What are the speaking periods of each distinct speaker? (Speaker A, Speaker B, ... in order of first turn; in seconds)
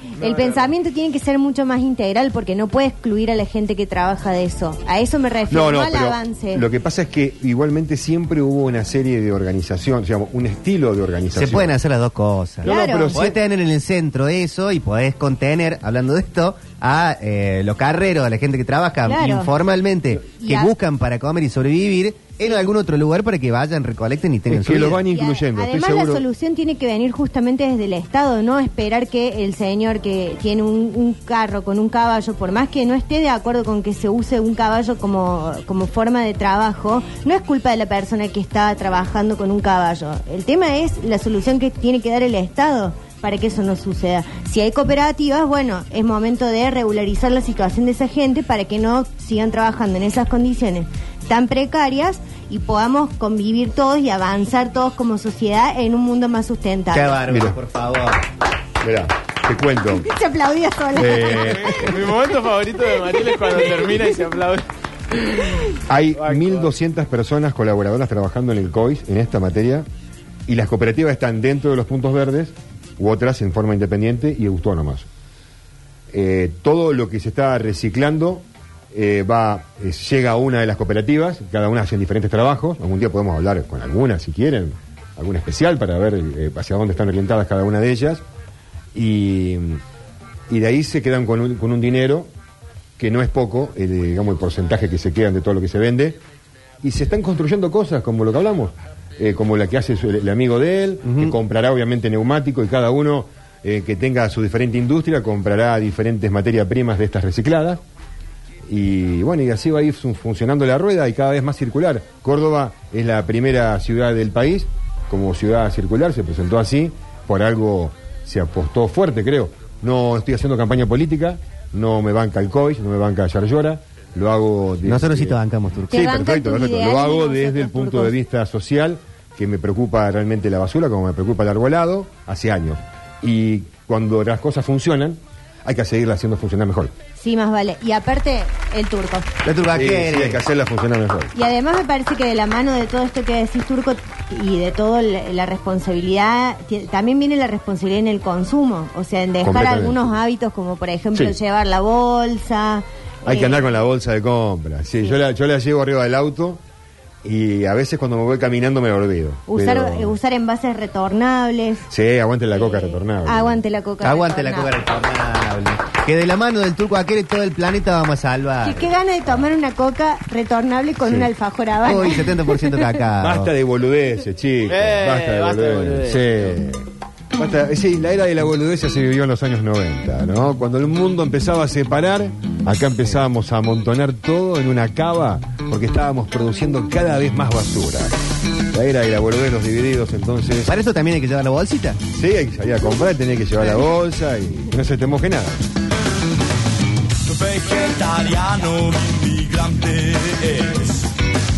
Speaker A: 0.2-6.7, 12.6-13.2, 19.1-19.5, 20.4-20.7, 22.4-22.7, 25.0-57.2, 60.0-61.8, 125.9-128.1, 137.2-139.3, 141.3-153.6, 159.5-161.9, 162.5-164.8, 168.6-172.6
Speaker B: 0.2-0.7, 61.6-65.6, 66.1-66.7, 174.7-176.5
Speaker C: 5.5-11.8, 12.6-13.4, 24.5-26.2, 57.3-57.6, 58.8-60.1, 60.9-61.9, 65.9-69.8, 70.5-75.1, 76.1-88.2, 88.9-89.8, 90.5-92.3, 93.0-96.2, 96.8-107.8, 108.7-125.4, 125.9-136.9, 139.7-141.3, 149.4-150.1, 153.2-156.6, 157.2-160.2, 161.9-163.6, 173.2-188.2, 188.7-190.7, 192.1-195.7
Speaker D: 11.3-25.0, 56.9-58.2, 101.0-101.3, 124.8-126.0, 139.4-140.4, 164.0-168.9, 171.0-171.3, 171.8-173.5, 190.7-192.0
Speaker E: 197.2-201.1